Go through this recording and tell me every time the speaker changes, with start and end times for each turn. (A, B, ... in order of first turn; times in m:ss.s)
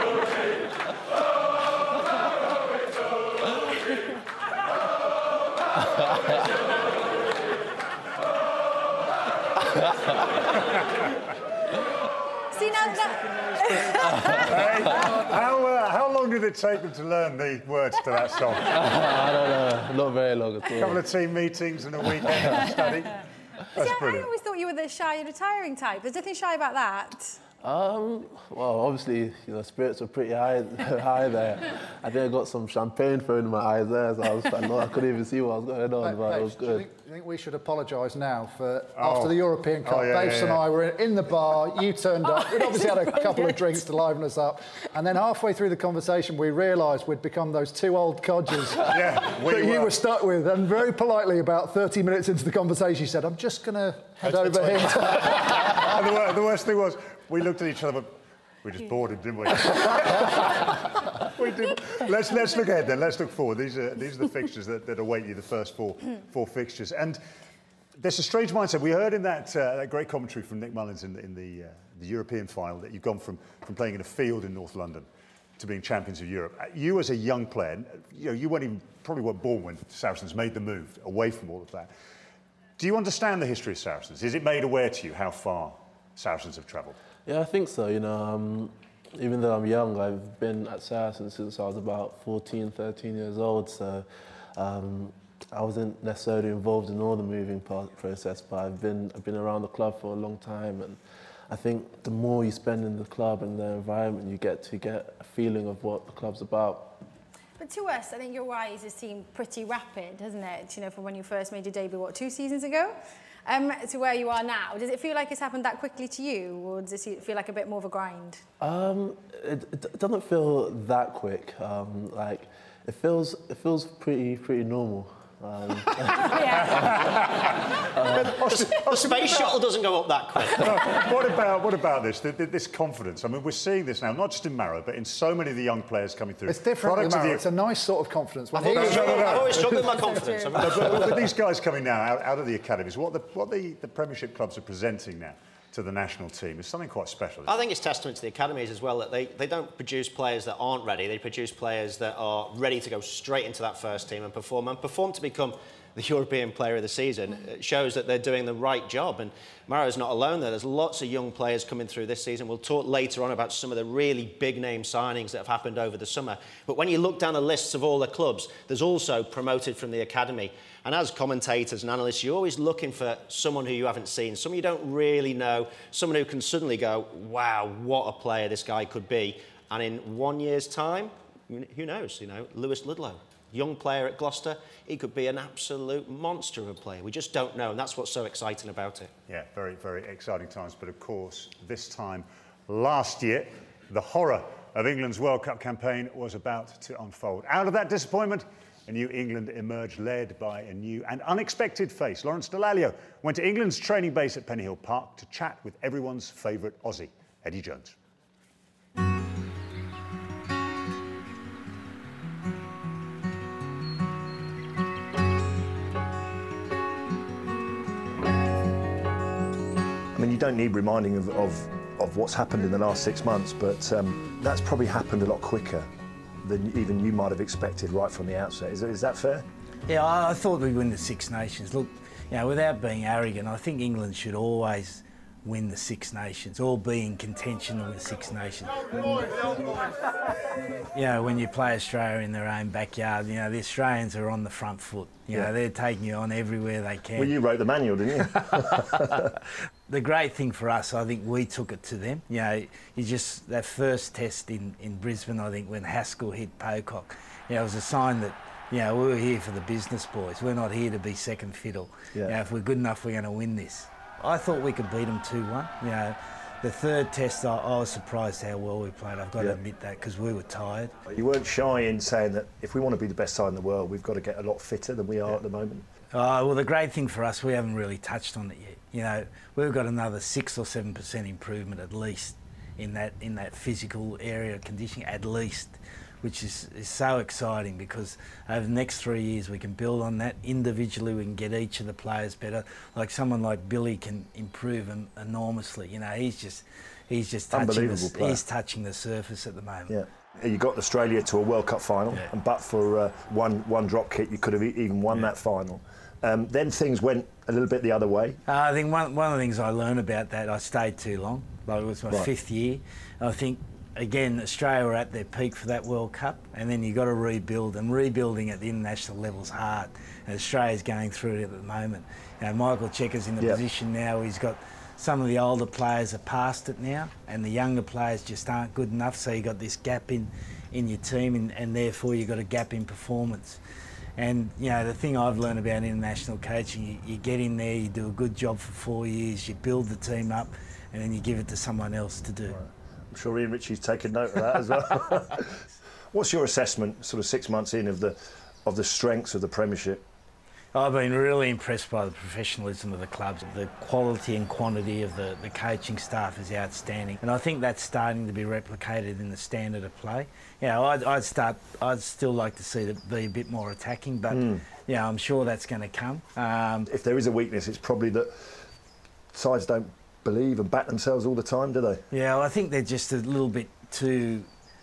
0:12.5-0:14.5 A
0:14.5-0:19.1 B
0:18.7-0:21.0 C
0:20.8-0:23.2 B
0:23.8-0:24.3 B
0:23.8-0:27.4 A
0:27.6-0:36.8 C
0:36.0-0:55.6 D
0:39.0-0:40.6 B
0:48.9-0:49.9 B
0:54.2-1:07.2 B
1:08.0-1:15.1 B
1:15.6-1:21.9 B
1:22.8-1:27.0 B
1:27.3-1:41.0 C
1:41.5-1:47.0 C
1:47.6-1:58.4 A
1:58.6-2:06.4 C
2:06.2-2:07.2 A
2:06.6-2:09.6 B
2:08.1-2:10.9 E
2:10.5-2:17.4 B
2:16.5-2:19.7 D
2:18.6-2:21.2 E
2:18.6-2:19.9 B
2:19.7-2:20.7 A
2:20.6-2:27.5 B
2:27.5-3:09.1 E
3:09.3-3:28.0 B
3:40.2-3:45.9 F
3:46.4-3:49.5 F
3:49.9-3:59.3 G
4:00.9-4:07.3 G
4:07.2-4:09.3 F
4:09.9-4:31.0 G
4:31.1-4:35.9 F
4:36.1-4:59.9 G
4:57.5-4:58.4 F
4:59.9-5:08.4 F
5:08.5-5:33.6 G
5:34.2-5:42.6 G
5:42.5-5:45.6 F
5:46.1-5:50.0 F
5:50.7-6:06.9 G
6:04.3-6:04.6 F
6:06.9-6:08.7 F
6:09.3-6:12.0 F
6:12.1-6:14.5 G